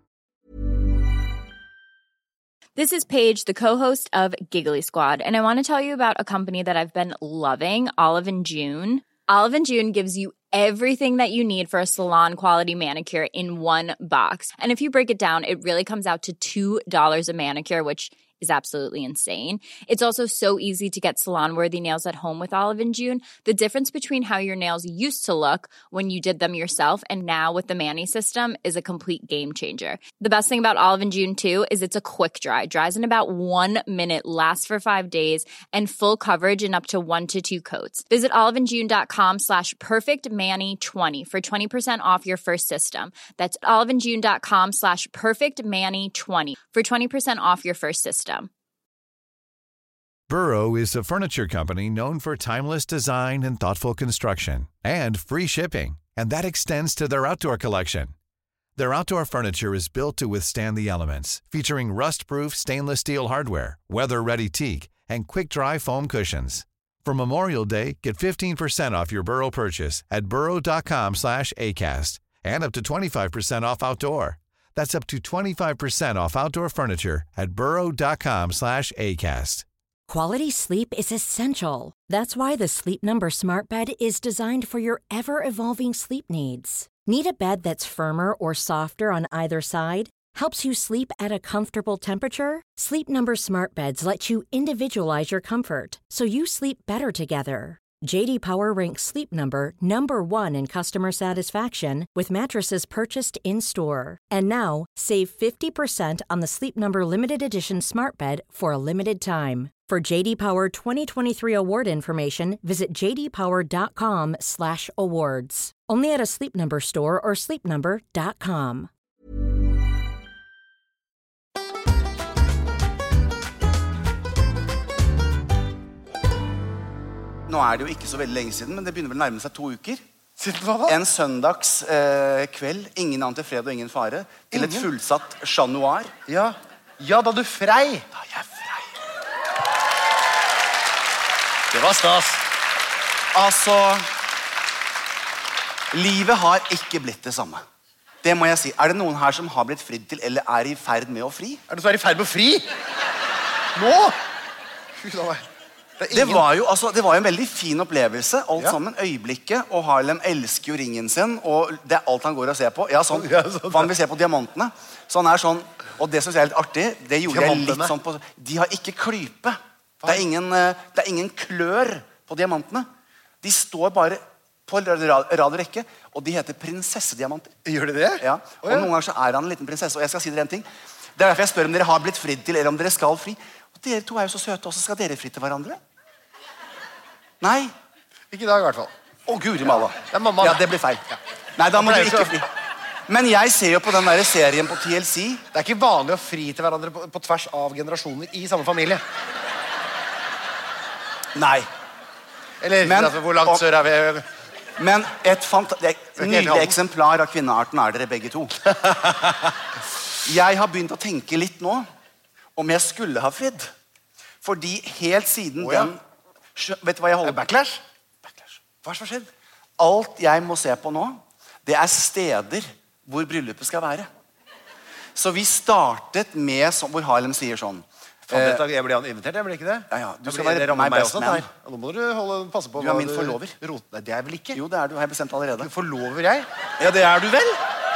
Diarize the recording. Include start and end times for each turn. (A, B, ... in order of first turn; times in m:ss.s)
0:02.8-0:48.5 A
0:50.3-0:58.1 B
0:58.8-1:19.6 B
1:20.1-1:58.9 C
2:07.5-2:10.0 D
2:10.4-2:11.0 E
2:10.9-2:16.1 D
2:14.5-2:14.9 E
2:16.3-2:18.1 E
2:18.2-2:18.9 D
2:21.7-2:22.4 E
2:23.3-2:24.1 D
2:25.9-2:27.6 D
2:28.2-2:31.6 D
2:31.7-2:32.7 E
2:33.7-2:34.2 E
2:35.0-2:35.5 E
2:36.0-2:36.4 E
2:36.1-2:52.9 D
2:43.1-2:43.9 E
2:47.3-2:47.9 E
2:53.4-2:57.5 D
2:57.6-2:58.9 E
2:58.2-3:05.8 D
3:07.4-3:07.7 D
3:08.3-3:08.9 E
3:09.3-3:11.0 D
3:09.7-3:11.2 E
3:11.6-3:12.5 D
3:11.7-3:12.4 E
3:13.1-3:15.4 D
3:15.5-3:19.0 E
3:21.3-3:21.7 D
3:22.6-3:24.2 E
3:22.8-3:23.6 D
3:24.8-3:28.6 D
3:26.2-3:26.8 E
3:28.7-3:29.5 E
3:30.2-3:31.8 D
3:32.6-3:33.7 D
3:34.4-3:36.0 D
3:35.6-3:35.9 E
3:36.6-3:37.4 D
3:37.2-3:37.8 E
3:38.2-3:38.6 D
3:38.8-3:39.3 E
3:39.8-3:44.1 D
3:45.2-3:48.6 D
3:48.3-3:54.6 E
3:49.9-3:51.5 D
3:52.8-3:53.5 D
3:54.5-3:55.7 D
3:55.6-3:56.5 E
3:56.8-3:57.6 D